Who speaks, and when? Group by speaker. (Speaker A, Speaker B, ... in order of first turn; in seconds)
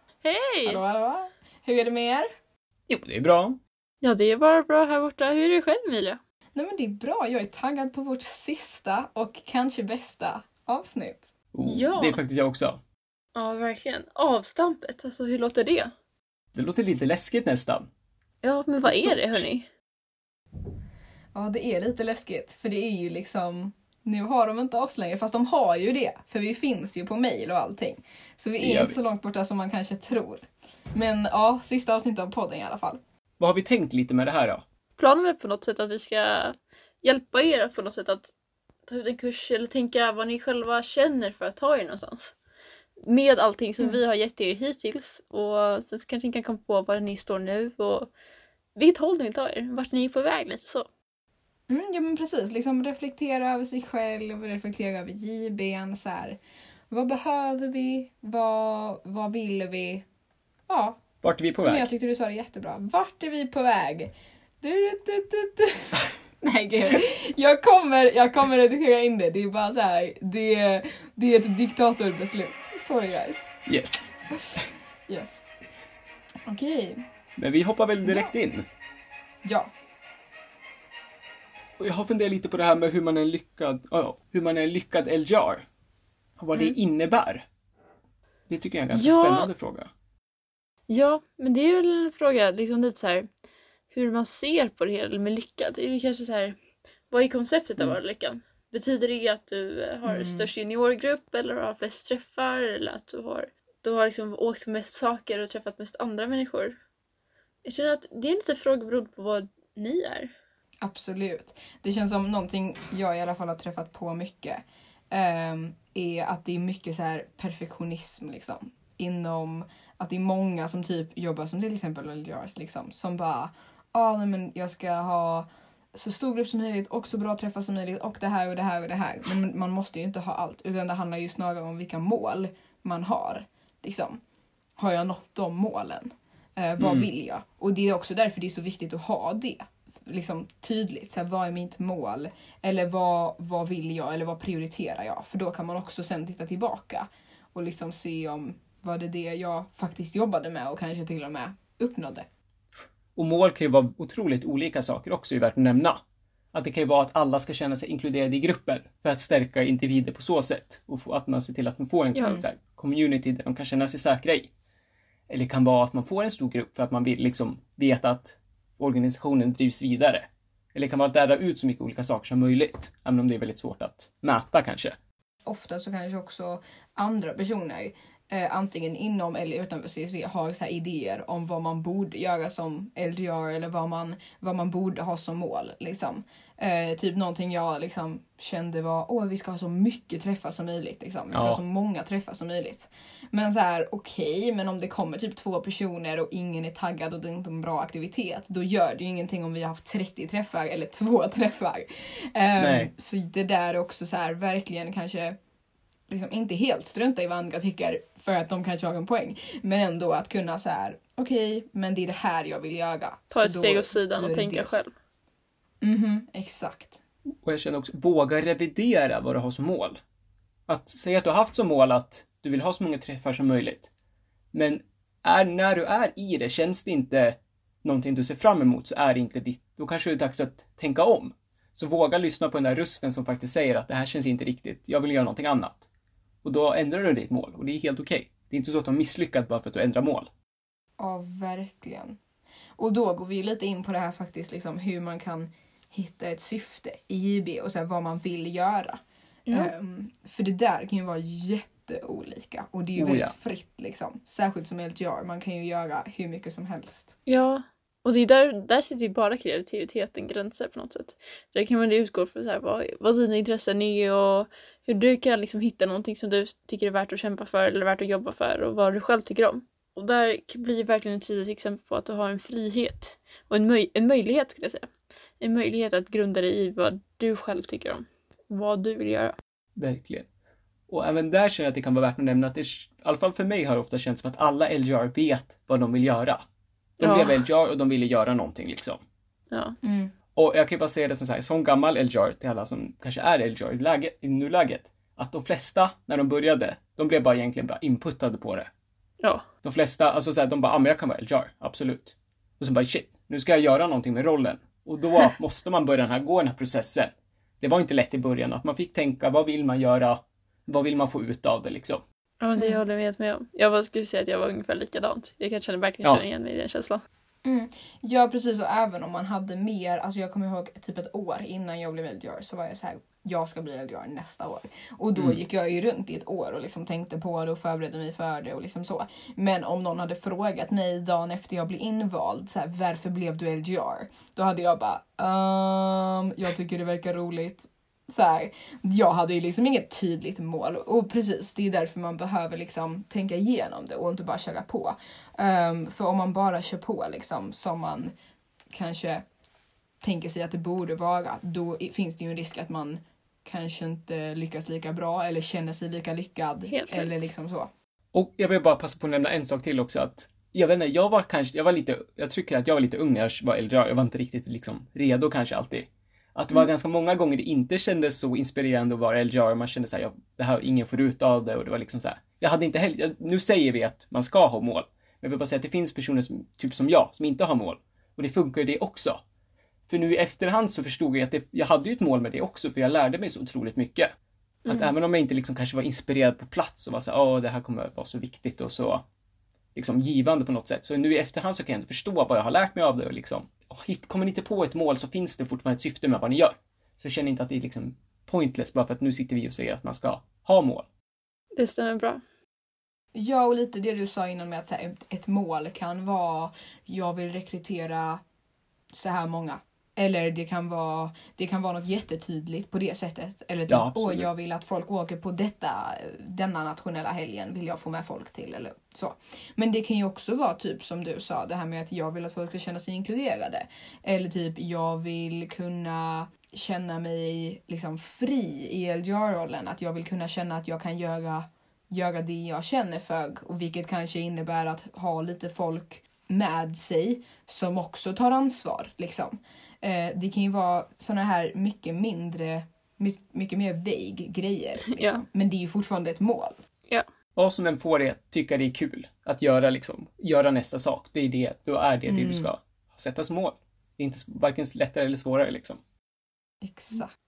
Speaker A: 0.2-0.8, 4.0-6.2, 11.7-12.2, 13.3-15.9, 18.4-19.7, 35.0-38.3, 38.9-42.3, 43.0-48.1, 48.8-50.9, 88.9-89.5, 90.9-93.3, 93.9-96.5, 97.1-106.8, 107.6-110.3, 162.1-162.4, 213.3-214.9, 257.3-279.4, 287.0-287.4, 289.5-289.8, 312.4-317.0, 356.7-357.3, 401.5-402.2, 444.9-445.2
Speaker B: 0.6-2.3, 6.5-11.3, 21.3-33.0, 51.7-56.4, 56.9-60.0, 60.7-61.0, 61.6-73.6, 74.4-75.5, 76.5-77.0, 78.0-78.3, 79.4-79.7, 100.0-100.5, 110.8-134.2, 134.8-152.2, 175.4-205.4, 206.1-214.8, 215.8-217.0, 241.0-242.2, 242.8-257.1, 289.8-290.1, 317.4-348.1, 348.7-349.2, 350.0-357.7, 403.1-408.2, 408.9-446.6, 452.1-452.5, 456.6-457.1
Speaker C: 2.9-3.6, 11.5-12.8, 16.5-17.9, 18.8-19.5, 28.6-29.0, 33.4-34.6, 61.2-61.9, 73.7-74.1, 77.4-78.7, 81.8-85.6, 86.4-87.4, 88.5-89.9, 136.8-137.1, 153.2-156.0, 156.5-164.5, 165.3-174.9, 191.3-191.6, 202.6-202.9, 217.4-220.0, 220.7-223.9, 224.5-235.9, 236.4-240.3, 252.9-253.3, 279.8-280.2, 280.9-286.4, 287.0-289.0, 290.4-298.7, 299.6-312.0, 358.1-379.2, 379.9-384.1, 384.7-389.0, 389.7-400.9, 413.7-414.3, 447.4-455.8